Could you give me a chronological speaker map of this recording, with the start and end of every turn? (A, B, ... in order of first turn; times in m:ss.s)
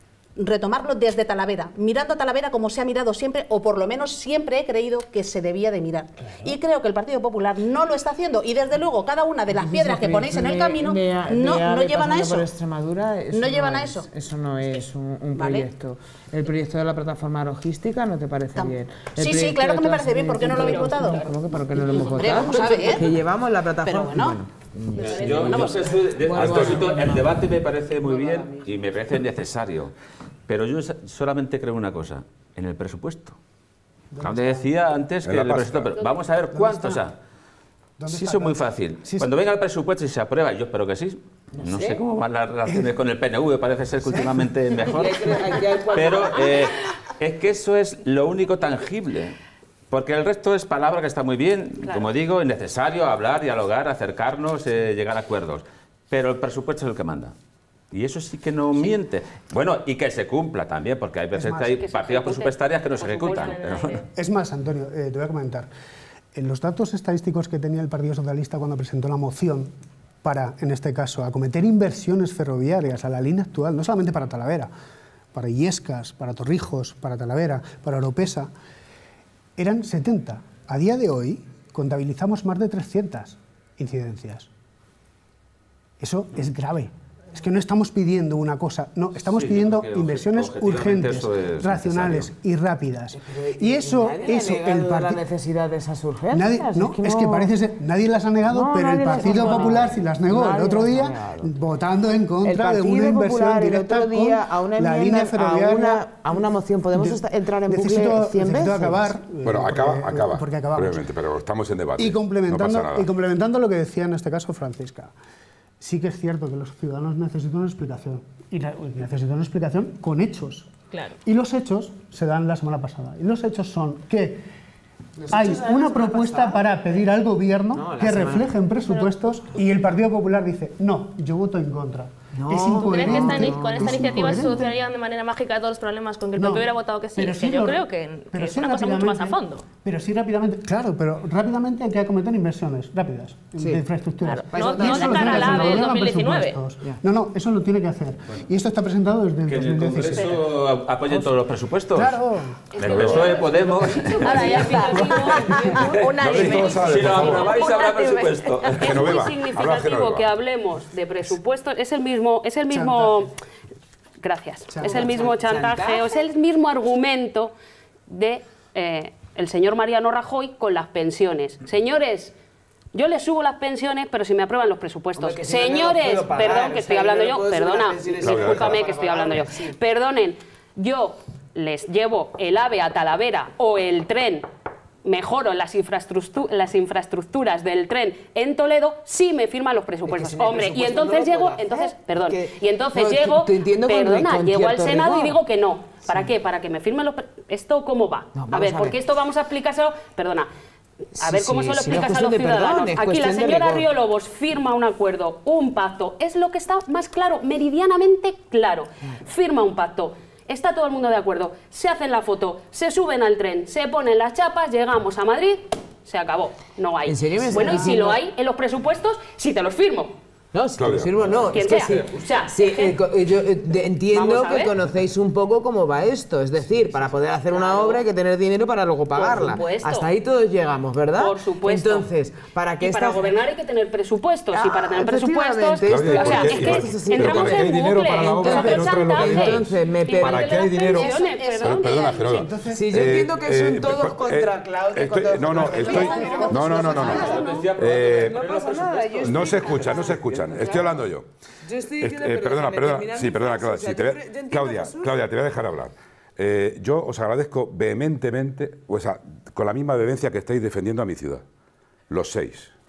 0:00.4-0:12.5 A
0:09.5-0:27.4 B
0:13.3-0:14.1 A
0:15.4-0:15.7 A
0:18.6-0:21.3 A
0:20.6-0:21.0 C
0:21.9-0:22.8 C
0:22.2-0:23.2 A
0:23.8-0:24.4 A
0:25.0-0:29.9 D
0:25.0-0:26.0 A
0:26.3-0:27.0 E
0:28.0-0:28.6 B
0:30.5-0:33.4 D
0:34.1-0:34.7 F
0:34.2-0:37.1 D
0:35.2-0:36.0 E
0:35.9-0:36.2 C
0:36.5-0:37.0 F
0:38.0-0:39.3 F
0:38.1-0:49.4 D
0:41.6-0:42.0 B
0:44.1-0:44.4 F
0:44.8-0:46.7 B
0:49.9-0:57.3 D
0:51.8-0:52.1 C
0:57.9-1:04.0 D
1:01.3-1:01.8 F
1:01.7-1:04.0 C
1:03.3-1:04.0 G
1:04.1-1:05.7 F
1:06.3-1:09.7 F
1:10.2-1:14.7 F
1:15.3-1:18.5 F
1:19.6-1:24.5 F
1:26.0-1:35.2 F
1:29.2-1:32.3 D
1:33.1-1:37.5 B
1:36.3-1:46.4 F
1:38.5-1:41.5 B
1:42.4-1:49.1 B
1:46.9-1:51.1 F
1:49.4-1:53.1 E
1:52.0-1:55.1 F
1:55.8-2:00.7 F
2:01.2-2:04.4 F
2:05.2-2:06.9 B
2:05.3-2:14.7 F
2:07.7-2:08.6 B
2:08.9-2:09.2 G
2:12.3-2:14.4 B
2:12.7-2:19.6 G
2:16.4-2:30.4 F
2:23.6-2:23.8 B
2:24.2-2:26.6 G
2:24.5-2:25.9 B
2:29.4-2:32.2 D
2:31.9-2:32.8 F
2:32.7-2:36.5 C
2:32.8-2:34.9 D
2:32.8-2:33.4 E
2:33.6-2:35.9 F
2:34.4-2:38.3 G
2:35.6-2:39.1 D
2:36.2-2:37.5 E
2:36.4-2:37.0 A
2:37.4-2:43.3 C
2:38.6-2:40.3 E
2:42.7-2:43.3 F
2:44.2-2:47.5 C
2:44.7-2:45.0 F
2:44.8-2:46.1 B
2:48.1-2:52.3 C
2:52.9-3:04.4 C
2:55.2-2:59.8 B
2:58.2-2:58.8 E
3:05.0-3:20.5 C
3:10.0-3:15.4 B
3:16.0-3:16.3 B
3:18.3-3:19.0 B
3:21.1-3:23.9 B
3:21.1-3:40.1 C
3:37.0-3:38.2 B
3:40.5-3:53.4 B
3:40.8-3:41.7 E
3:41.5-3:43.0 C
3:44.1-3:44.8 C
3:47.5-3:48.0 C
3:49.1-3:50.1 C
3:51.1-3:52.1 C
3:52.8-4:02.4 C
3:54.5-4:00.6 B
3:55.8-4:08.4 E
4:00.8-4:02.4 A
4:02.3-4:03.0 F
4:02.7-4:07.6 B
4:05.7-4:07.6 A
4:05.9-4:07.6 C
4:07.0-4:10.9 D
4:08.2-4:10.8 B
4:09.2-4:11.3 E
4:11.6-4:15.1 B
4:12.0-4:21.4 E
4:22.1-4:22.7 E